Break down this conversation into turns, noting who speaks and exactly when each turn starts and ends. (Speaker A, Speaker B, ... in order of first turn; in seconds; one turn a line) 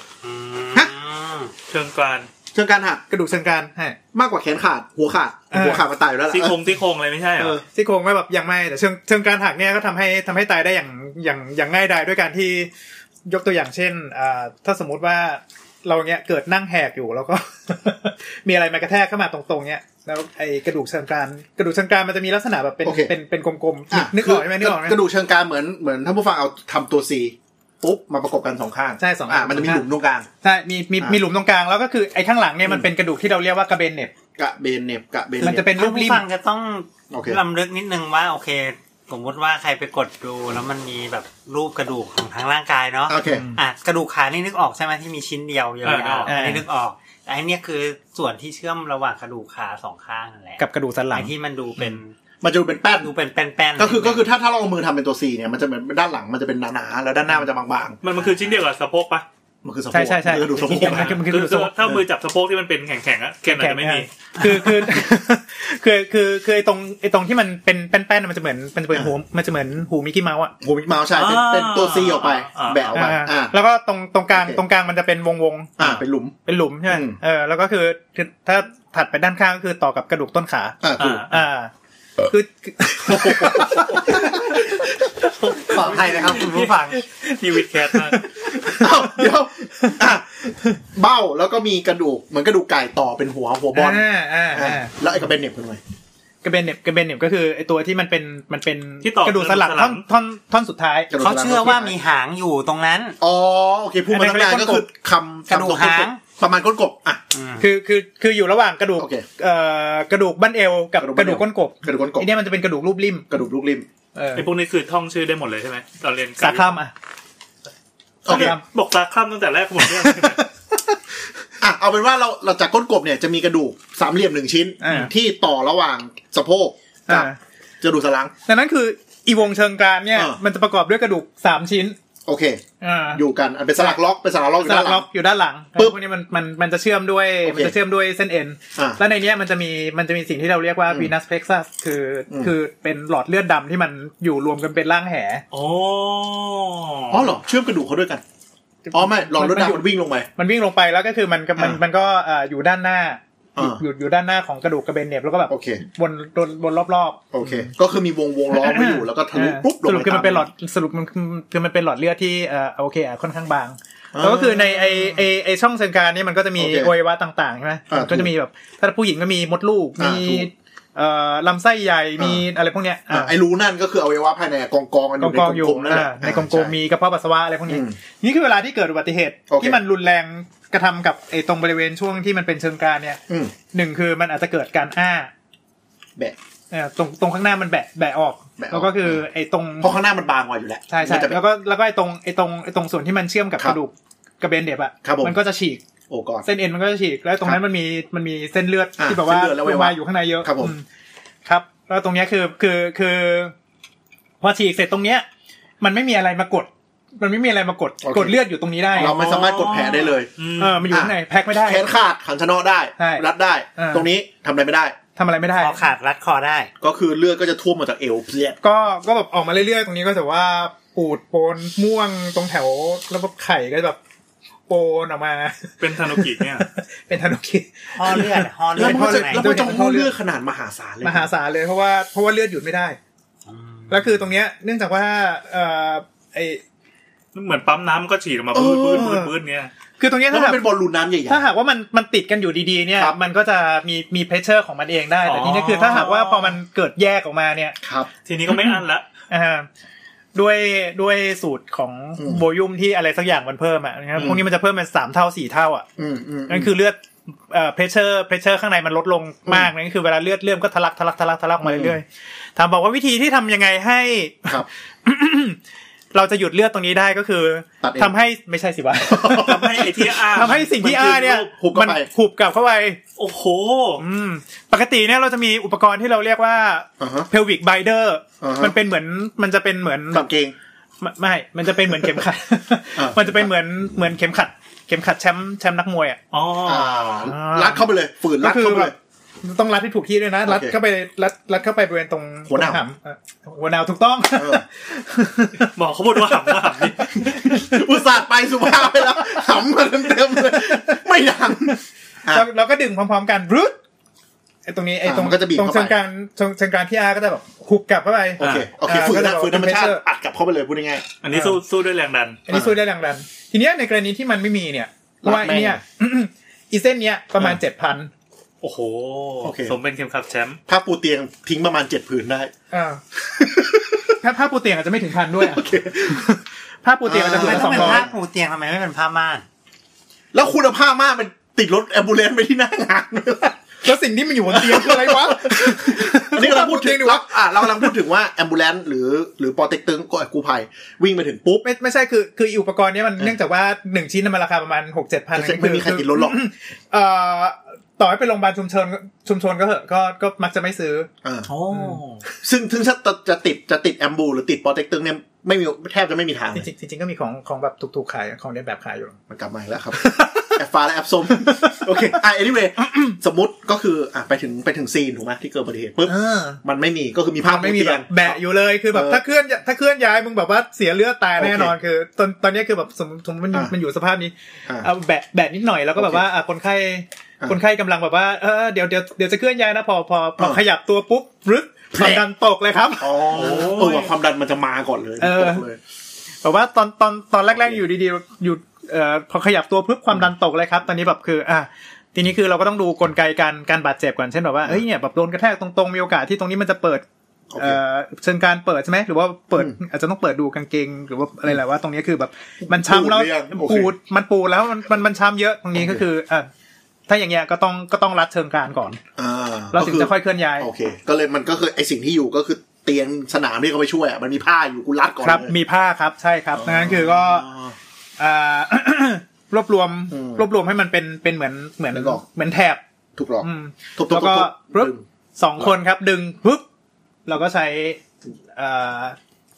Speaker A: 0.2-1.5
Speaker B: 1.7-2.3
Speaker C: 2.5-3.0
Speaker D: 3.1-4.0
Speaker C: 4.1-6.6
Speaker D: 5.5-5.8
Speaker B: 6.3-7.6
Speaker C: 7.3-7.6
Speaker D: 7.7-12.7
Speaker D: 13.2-25.0
Speaker C: 22.8-23.1
Speaker C: 23.9-30.3
Speaker D: 29.0-29.9
Speaker D: 30.4-34.1
Speaker C: 32.6-32.9
Speaker C: 34.4-35.7
Speaker D: 35.4-36.2
Speaker A: 35.5-52.1
Speaker C: 37.1-37.4
Speaker C: 43.1-43.5
Speaker D: 43.2-43.6
Speaker B: 45.8-46.3
Speaker D: 46.3-46.6
Speaker D: 50.6-51.3
Speaker C: 52.4-53.1
Speaker A: 53.0-54.3
Speaker C: 53.8-58.0
Speaker B: 58.0-59.2
Speaker C: 59.6-61.3
Speaker D: 59.9-61.8
Speaker B: 60.7-64.6
Speaker C: 61.8-62.0
Speaker D: 63.5-70.5
Speaker C: 70.6-73.6
Speaker B: 71.1-73.0
Speaker D: 72.9-81.7
Speaker C: 74.3-74.6
Speaker C: 75.8-77.2
Speaker C: 80.8-81.2
Speaker B: 81.0-81.3
Speaker D: 82.2-84.9
Speaker C: 83.0-84.9
Speaker D: 85.4-86.3
Speaker A: 85.5-87.0
Speaker B: 86.0-88.3
Speaker D: 86.9-90.0
Speaker C: 88.8-95.8
Speaker D: 93.7-94.9
Speaker D: 96.4-101.1
Speaker B: 99.0-100.0
Speaker C: 101.1-102.0
Speaker A: 101.2-103.2
Speaker C: 103.2-107.2
Speaker D: 104.1-104.9
Speaker A: 105.5-106.2
Speaker A: 107.3-107.7
Speaker D: 107.6-113.2
Speaker C: 109.0-109.2
Speaker C: 111.0-112.3
Speaker C: 113.3-113.8
Speaker D: 114.1-114.5
Speaker B: 114.3-116.8
Speaker D: 116.4-116.9
Speaker C: 118.2-118.5
Speaker B: 118.2-120.4
Speaker D: 118.3-118.6
Speaker D: 119.9-120.5
Speaker C: 121.6-127.3
Speaker D: 124.8-125.1
Speaker D: 127.1-127.4
Speaker C: 127.8-128.3
Speaker D: 128.4-131.9
Speaker C: 130.1-130.4
Speaker C: 132.2-132.6
Speaker D: 132.8-133.2
Speaker C: 133.1-135.1
Speaker D: 134.6-145.4
Speaker C: 137.4-137.8
Speaker C: 140.9-141.1
Speaker B: 145.5-147.3
Speaker C: 147.1-148.2
Speaker D: 148.8-157.7
Speaker C: 148.9-150.3
Speaker C: 151.6-151.8
Speaker C: 153.6-153.8
Speaker C: 155.5-155.8
Speaker C: 157.3-160.5
Speaker D: 158.5-173.3
Speaker C: 164.1-165.3
Speaker C: 166.6-166.9
Speaker C: 167.9-168.3
Speaker C: 170.0-170.5
Speaker C: 172.2-172.4
Speaker C: 173.1-176.7
Speaker D: 175.2-183.2
Speaker C: 177.7-178.0
Speaker C: 179.5-179.8
Speaker C: 183.3-183.5
Speaker D: 183.7-185.3
Speaker D: 186.7-189.9
Speaker C: 188.6-189.2
Speaker C: 189.8-191.4
Speaker D: 190.9-195.8
Speaker C: 195.0-195.4
Speaker C: 196.1-196.5
Speaker D: 196.4-200.8
Speaker C: 199.0-200.7
Speaker D: 201.4-203.5
Speaker D: 204.4-205.2
Speaker D: 205.8-209.2
Speaker C: 208.0-208.4
Speaker C: 208.9-210.3
Speaker B: 209.0-210.9
Speaker D: 210.6-211.9
Speaker C: 210.9-214.9
Speaker D: 213.0-214.1
Speaker D: 215.2-215.8
Speaker A: 215.6-216.7
Speaker C: 216.8-218.6
Speaker D: 218.6-224.0
Speaker D: 224.7-230.1
Speaker B: 225.8-226.7
Speaker A: 227.9-229.6
Speaker C: 228.8-231.3
Speaker D: 231.0-233.0
Speaker A: 233.4-234.2
Speaker D: 233.9-236.6
Speaker B: 237.3-239.7
Speaker C: 238.5-239.2
Speaker D: 238.9-239.3
Speaker D: 240.0-240.7
Speaker C: 240.3-241.5
Speaker D: 241.2-247.8
Speaker B: 245.2-246.6
Speaker C: 247.8-248.1
Speaker B: 248.2-249.1
Speaker D: 249.3-249.7
Speaker D: 250.3-255.8
Speaker C: 252.2-252.4
Speaker C: 254.1-254.4
Speaker C: 256.0-256.7
Speaker D: 256.5-265.6
Speaker C: 261.6-262.0
Speaker D: 266.1-269.7
Speaker C: 267.8-268.1
Speaker C: 268.9-272.1
Speaker B: 269.4-271.5
Speaker D: 270.3-273.0
Speaker B: 273.2-274.0
Speaker D: 274.0-280.3
Speaker C: 277.0-277.3
Speaker C: 278.4-278.8
Speaker C: 280.1-280.5
Speaker D: 281.0-286.2
Speaker C: 281.9-282.2
Speaker C: 282.9-283.5
Speaker B: 286.3-287.0
Speaker C: 286.6-288.9
Speaker D: 287.2-295.7
Speaker C: 290.4-290.8
Speaker C: 292.5-292.8
Speaker C: 294.3-294.6
Speaker B: 295.6-297.1
Speaker D: 296.2-297.7
Speaker C: 297.2-302.5
Speaker D: 299.2-299.4
Speaker D: 300.3-301.0
Speaker D: 302.3-303.8
Speaker D: 304.6-310.0
Speaker C: 305.0-306.0
Speaker C: 308.4-311.1
Speaker B: 308.4-308.7
Speaker B: 311.2-312.4
Speaker D: 311.3-311.6
Speaker D: 312.5-318.1
Speaker C: 312.5-312.8
Speaker C: 315.2-315.8
Speaker B: 318.6-320.6
Speaker C: 319.4-319.8
Speaker C: 320.7-322.5
Speaker D: 322.7-323.0
Speaker C: 323.3-324.2
Speaker D: 324.2-328.1
Speaker C: 325.3-326.2
Speaker C: 327.0-328.1
Speaker A: 327.3-329.4
Speaker C: 330.3-333.6
Speaker D: 333.8-337.9
Speaker C: 334.5-341.6
Speaker D: 341.6-351.1
Speaker C: 345.3-346.4
Speaker C: 351.2-351.5
Speaker B: 351.5-352.2
Speaker D: 351.7-352.0
Speaker C: 352.3-356.7
Speaker D: 356.5-359.2
Speaker C: 359.3-369.2
Speaker D: 359.9-360.6
Speaker D: 361.3-362.1
Speaker D: 366.0-366.6
Speaker D: 367.4-383.9
Speaker C: 371.4-371.7
Speaker C: 375.9-376.3
Speaker C: 380.4-380.6
Speaker C: 381.9-382.3
Speaker C: 383.0-385.8
Speaker B: 383.3-384.1
Speaker D: 385.2-385.7
Speaker D: 386.4-397.0
Speaker C: 387.5-387.8
Speaker C: 397.5-397.8
Speaker D: 397.6-406.5
Speaker C: 402.6-403.9
Speaker C: 405.7-406.0
Speaker D: 407.1-409.0
Speaker C: 409.2-415.6
Speaker D: 409.7-410.7
Speaker D: 415.2-417.5
Speaker C: 416.5-417.8
Speaker D: 418.2-422.8
Speaker C: 420.1-420.5
Speaker C: 421.9-422.2
Speaker C: 423.1-425.0
Speaker D: 423.4-426.6
Speaker D: 427.2-428.0
Speaker D: 428.5-429.2